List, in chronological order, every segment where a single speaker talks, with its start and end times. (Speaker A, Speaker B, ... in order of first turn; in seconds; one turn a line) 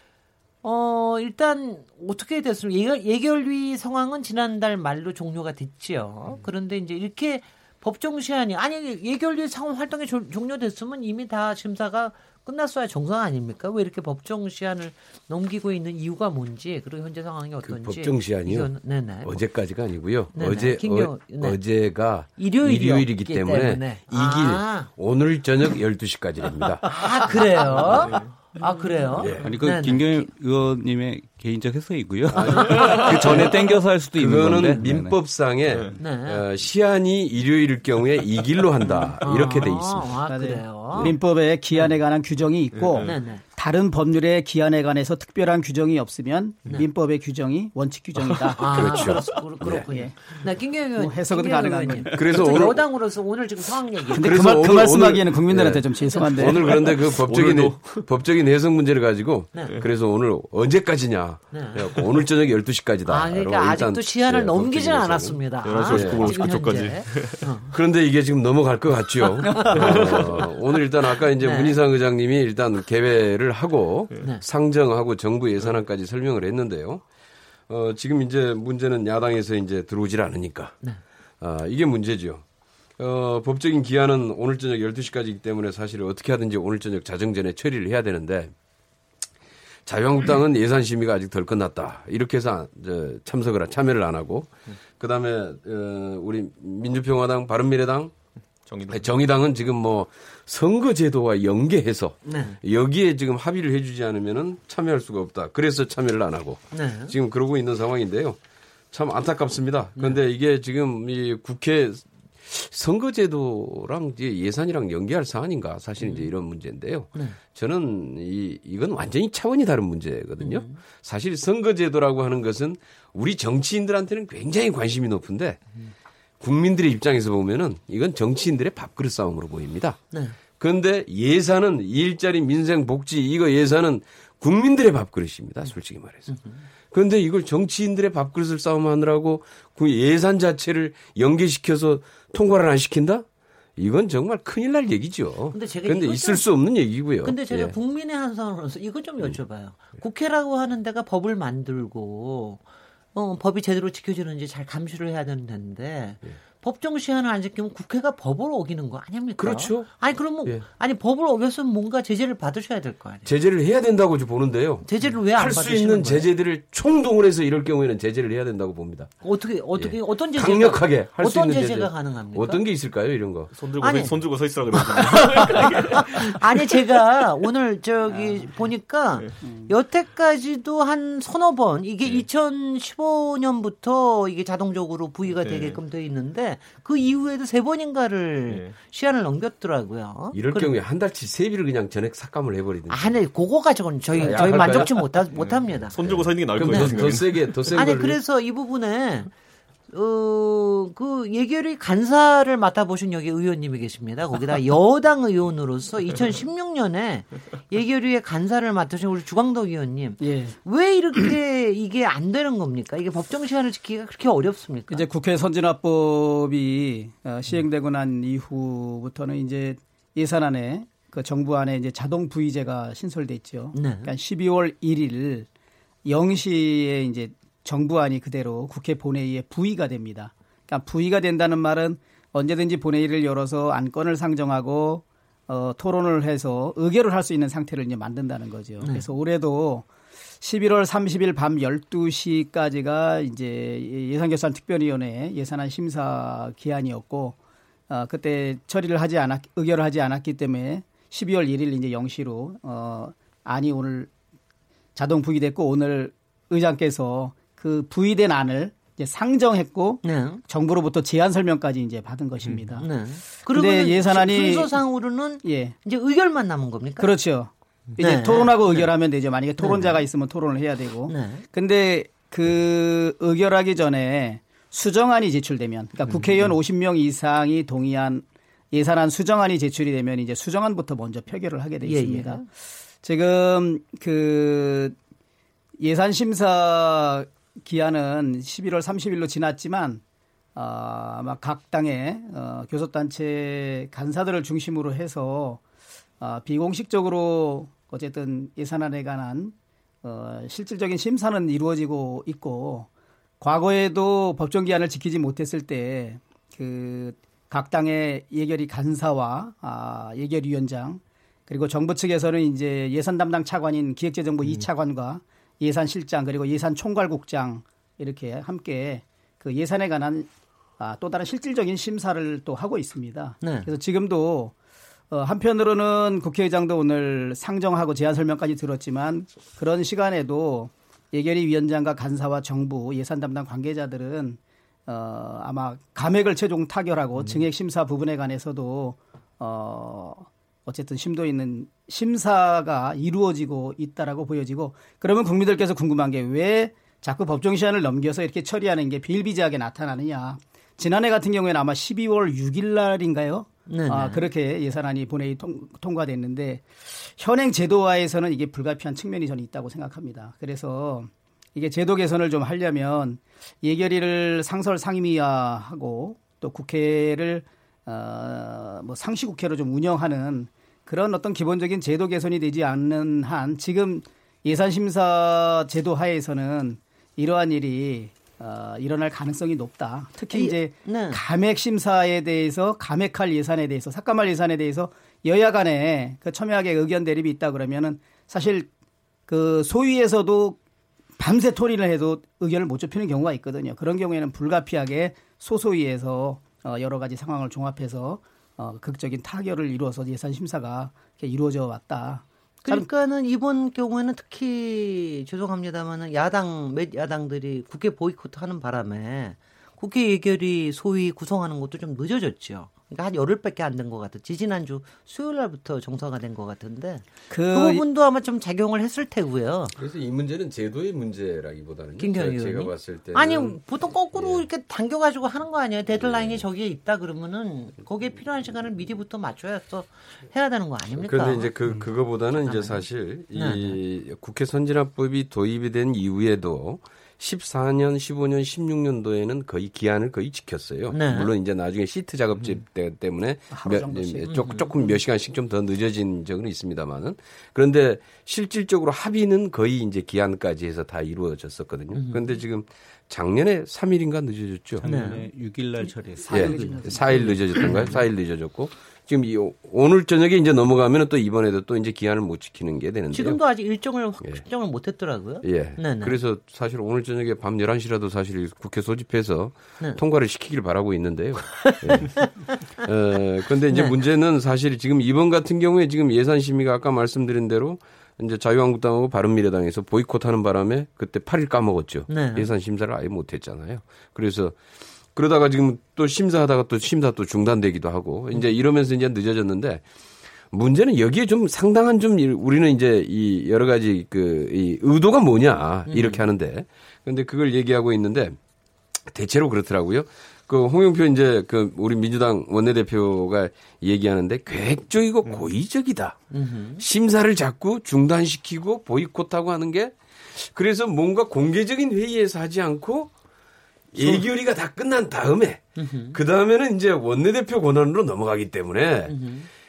Speaker A: 0.6-19.4
Speaker B: 17.6-27.2
Speaker A: 20.3-21.6
Speaker A: 22.4-24.9
Speaker A: 26.8-30.3
Speaker C: 27.9-28.3
Speaker B: 29.1-29.5
Speaker D: 29.4-35.2
Speaker A: 32.3-33.5
Speaker B: 32.3-33.5
Speaker C: 32.8-33.2
Speaker B: 34.2-40.2
Speaker A: 34.5-34.8
Speaker C: 35.7-35.9
Speaker A: 36.0-36.5
Speaker A: 39.2-41.2
Speaker E: 40.3-49.1
Speaker C: 42.8-43.1
Speaker A: 43.0-43.4
Speaker C: 48.2-48.6
Speaker A: 48.5-54.4
Speaker B: 48.7-49.9
Speaker E: 49.8-50.2
Speaker E: 51.0-52.6
Speaker B: 52.1-52.8
Speaker E: 54.1-57.0
Speaker B: 54.2-66.6
Speaker A: 56.0-56.8
Speaker C: 56.4-58.1
Speaker A: 59.5-59.8
Speaker A: 61.5-61.9
Speaker A: 63.1-67.8
Speaker C: 65.6-67.5
Speaker B: 67.7-77.0
Speaker A: 69.4-70.6
Speaker C: 69.7-70.5
Speaker A: 71.4-71.8
Speaker B: 77.7-80.8
Speaker B: 81.4-82.4
Speaker B: 83.0-88.5
Speaker B: 89.9-98.1
Speaker C: 98.7-99.2
Speaker B: 98.9-108.4
Speaker A: 102.2-102.6
Speaker A: 106.7-107.1
Speaker B: 108.9-125.8
Speaker A: 116.0-116.3
Speaker A: 120.4-120.8
Speaker B: 126.4-130.0
Speaker A: 130.1-130.4
Speaker B: 130.6-136.4
Speaker A: 136.3-136.6
Speaker B: 136.9-143.2
Speaker B: 143.8-147.7
Speaker A: 145.5-146.5
Speaker A: 147.2-163.3
Speaker B: 159.4-160.7
Speaker B: 163.3-169.1
Speaker A: 164.8-166.3
Speaker A: 169.2-172.6
Speaker B: 169.8-173.5
Speaker C: 173.5-176.4
Speaker A: 173.8-174.2
Speaker A: 174.8-190.8
Speaker E: 179.4-179.7
Speaker C: 185.4-185.8
Speaker C: 188.5-188.8
Speaker B: 190.3-193.2
Speaker A: 192.9-195.9
Speaker B: 194.1-195.0
Speaker C: 195.3-197.7
Speaker B: 196.0-198.2
Speaker A: 196.7-197.1
Speaker A: 197.7-199.3
Speaker A: 199.9-215.1
Speaker E: 210.2-210.6
Speaker E: 214.9-225.5
Speaker A: 223.7-224.1
Speaker E: 226.1-239.9
Speaker A: 238.8-239.1
Speaker E: 240.4-247.4
Speaker E: 247.9-254.1
Speaker E: 254.9-264.8
Speaker A: 260.0-260.4
Speaker A: 262.8-267.1
Speaker E: 265.4-265.8
Speaker E: 267.0-282.5
Speaker A: 268.0-268.9
Speaker A: 269.6-270.0
Speaker A: 271.1-271.4
Speaker A: 281.8-282.4
Speaker E: 283.0-285.0
Speaker E: 285.8-290.0
Speaker E: 290.6-295.6
Speaker E: 296.2-302.9
Speaker E: 303.4-324.5
Speaker A: 323.4-323.7
Speaker E: 325.1-388.7
Speaker A: 353.7-354.3
Speaker A: 380.3-381.2
Speaker E: 389.3-390.6
Speaker E: 391.2-402.9
Speaker A: 402.6-419.8
Speaker E: 417.3-417.8
Speaker B: 419.8-423.6
Speaker A: 422.0-431.5
Speaker B: 424.1-424.4
Speaker B: 425.9-426.4
Speaker B: 431.0-454.9
Speaker A: 432.4-433.8
Speaker A: 440.9-441.3
Speaker E: 443.5-444.6
Speaker A: 444.4-444.7
Speaker A: 451.9-452.2
Speaker D: 454.8-457.6
Speaker A: 454.8-455.3
Speaker E: 456.3-457.3
Speaker B: 456.3-463.4
Speaker A: 457.1-458.0
Speaker A: 463.1-466.2
Speaker B: 465.4-484.6
Speaker A: 471.5-472.7
Speaker A: 473.7-474.0
Speaker A: 482.1-482.5
Speaker B: 485.1-489.8
Speaker B: 490.5-498.4
Speaker A: 495.9-496.2
Speaker B: 499.1-506.2
Speaker A: 506.3-506.8
Speaker B: 506.8-513.1
Speaker B: 513.9-519.1
Speaker A: 515.8-516.2
Speaker A: 519.1-519.5